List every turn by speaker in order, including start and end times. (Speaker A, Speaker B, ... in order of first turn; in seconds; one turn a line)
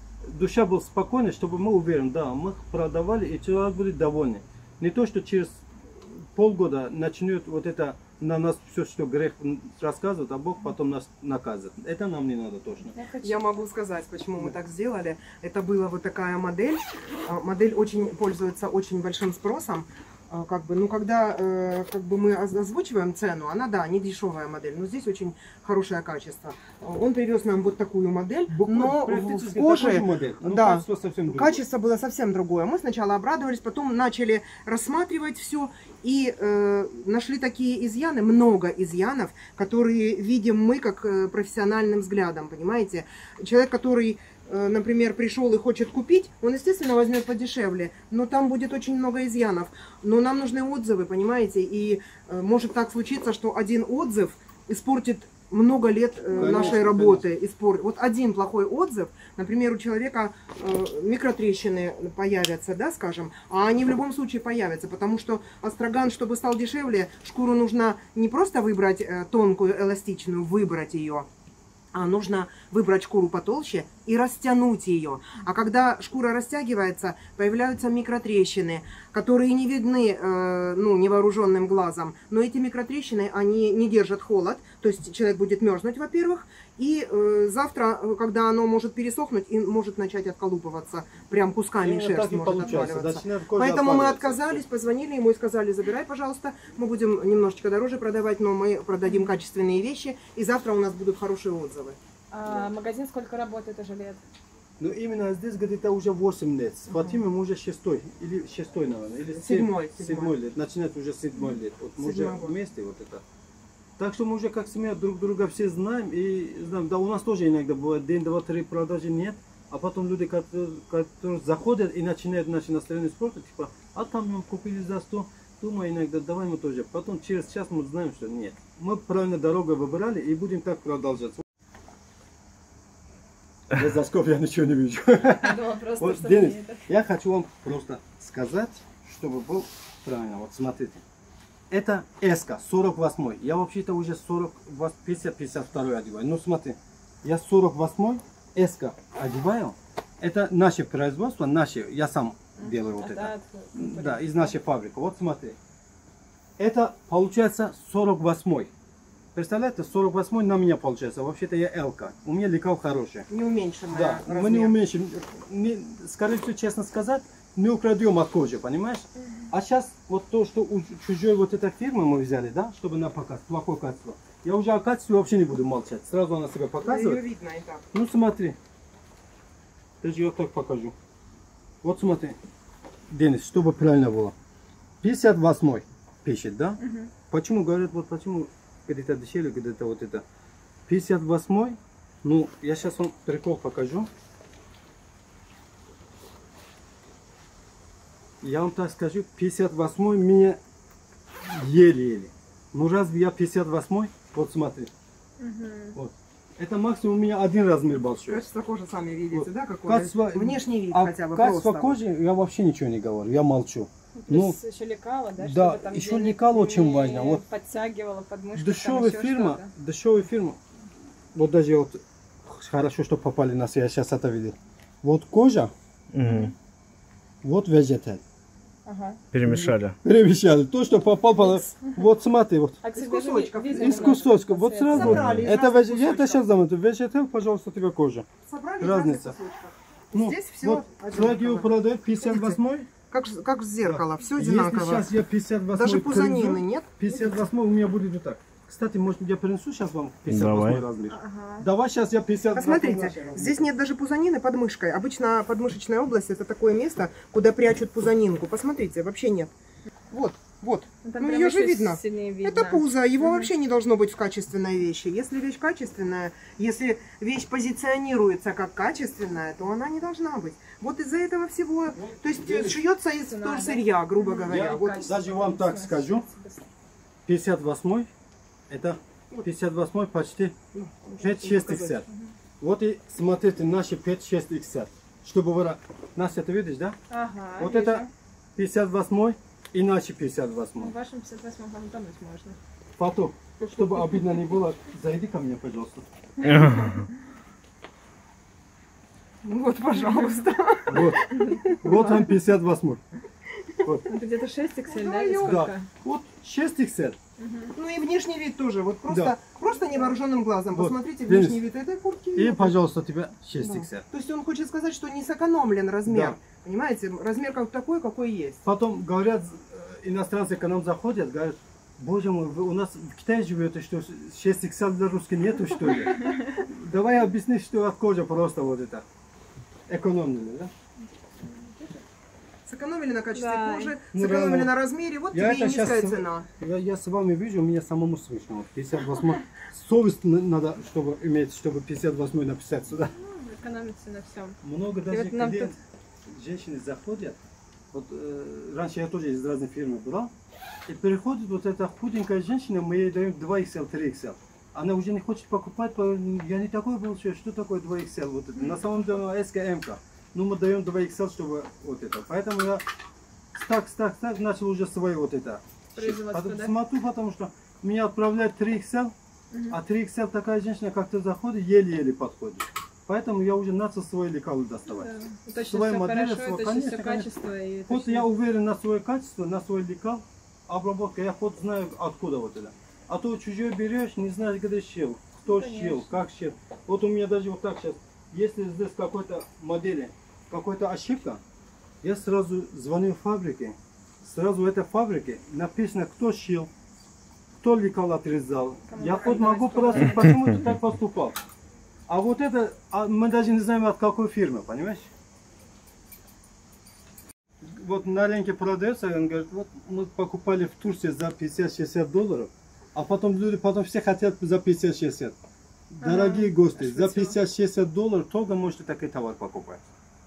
Speaker A: 0.2-13.0
Speaker B: 12.9-13.6
Speaker C: 13.2-71.3
Speaker A: 28.5-31.6
Speaker A: 56.3-57.2
Speaker C: 71.9-102.0
Speaker A: 91.8-94.7
Speaker B: 102.3-104.2
Speaker A: 104.8-113.2
Speaker C: 106.9-107.2
Speaker C: 109.3-110.3
Speaker C: 112.0-112.5
Speaker A: 114.0-131.4
Speaker A: 133.7-141.0
Speaker B: 135.3-136.8
Speaker A: 141.7-155.6
Speaker B: 152.6-154.6
Speaker A: 156.6-158.7
Speaker A: 159.3-163.3
Speaker C: 163.3-164.8
Speaker A: 163.9-177.2
Speaker C: 176.8-177.9
Speaker A: 177.9-178.6
Speaker A: 180.0-180.9
Speaker A: 181.8-182.4
Speaker A: 183.1-184.3
Speaker A: 185.0-186.8
Speaker B: 186.8-187.1
Speaker A: 187.3-190.2
Speaker A: 190.9-194.1
Speaker A: 198.4-200.6
Speaker A: 201.4-204.9
Speaker B: 205.4-206.0
Speaker A: 205.9-208.4
Speaker C: 208.3-212.0
Speaker A: 209.3-214.6
Speaker B: 214.2-219.7
Speaker A: 215.4-217.4
Speaker A: 218.6-220.6
Speaker A: 221.3-225.7
Speaker D: 226.1-226.5
Speaker A: 227.4-228.2
Speaker B: 228.9-229.2
Speaker D: 229.3-230.0
Speaker A: 229.4-232.8
Speaker B: 232.8-235.4
Speaker C: 232.9-234.2
Speaker A: 233.7-238.3
Speaker C: 234.9-236.5
Speaker C: 238.5-241.7
Speaker A: 238.8-239.4
Speaker A: 240.1-242.9
Speaker C: 242.2-242.6
Speaker C: 243.1-245.1
Speaker A: 243.8-253.7
Speaker C: 245.7-247.4
Speaker D: 250.3-250.8
Speaker B: 251.1-251.7
Speaker C: 252.5-259.5
Speaker C: 260.1-275.1
Speaker B: 261.0-263.5
Speaker A: 271.9-272.8
Speaker B: 273.2-276.6
Speaker A: 274.5-276.2
Speaker A: 277.3-278.1
Speaker A: 278.7-280.6
Speaker C: 280.7-282.0
Speaker A: 281.2-282.1
Speaker A: 282.6-287.0
Speaker B: 287.1-288.1
Speaker A: 287.6-290.9
Speaker B: 290.8-292.6
Speaker A: 293.0-296.1
Speaker D: 296.4-297.1
Speaker B: 296.5-296.9
Speaker C: 299.4-302.0
Speaker A: 300.9-301.2
Speaker A: 301.8-303.0
Speaker A: 303.8-304.1
Speaker B: 304.1-305.9
Speaker C: 304.9-305.7
Speaker A: 305.4-307.2
Speaker B: 307.4-307.7
Speaker C: 307.7-312.8
Speaker A: 309.1-309.4
Speaker A: 310.7-311.6
Speaker A: 312.4-314.1
Speaker C: 313.6-318.6
Speaker A: 316.1-316.4
Speaker A: 318.6-329.1
Speaker B: 326.2-326.5
Speaker A: 329.9-330.7
Speaker B: 331.5-332.0
Speaker C: 332.7-336.5
Speaker B: 333.3-333.9
Speaker A: 334.1-334.7
Speaker A: 335.3-343.1
Speaker B: 343.2-344.6
Speaker A: 344.6-347.4
Speaker B: 345.1-345.8
Speaker A: 347.9-350.3
Speaker A: 350.9-362.9
Speaker A: 363.5-369.1
Speaker B: 365.9-366.8
Speaker B: 369.5-369.8
Speaker A: 369.7-377.3
Speaker B: 374.9-378.3
Speaker A: 377.9-391.4
Speaker B: 385.5-386.2
Speaker A: 392.0-396.7
Speaker A: 397.6-401.4
Speaker B: 398.9-400.6
Speaker A: 402.1-405.1
Speaker A: 407.6-415.4
Speaker A: 415.9-419.8
Speaker B: 416.0-417.3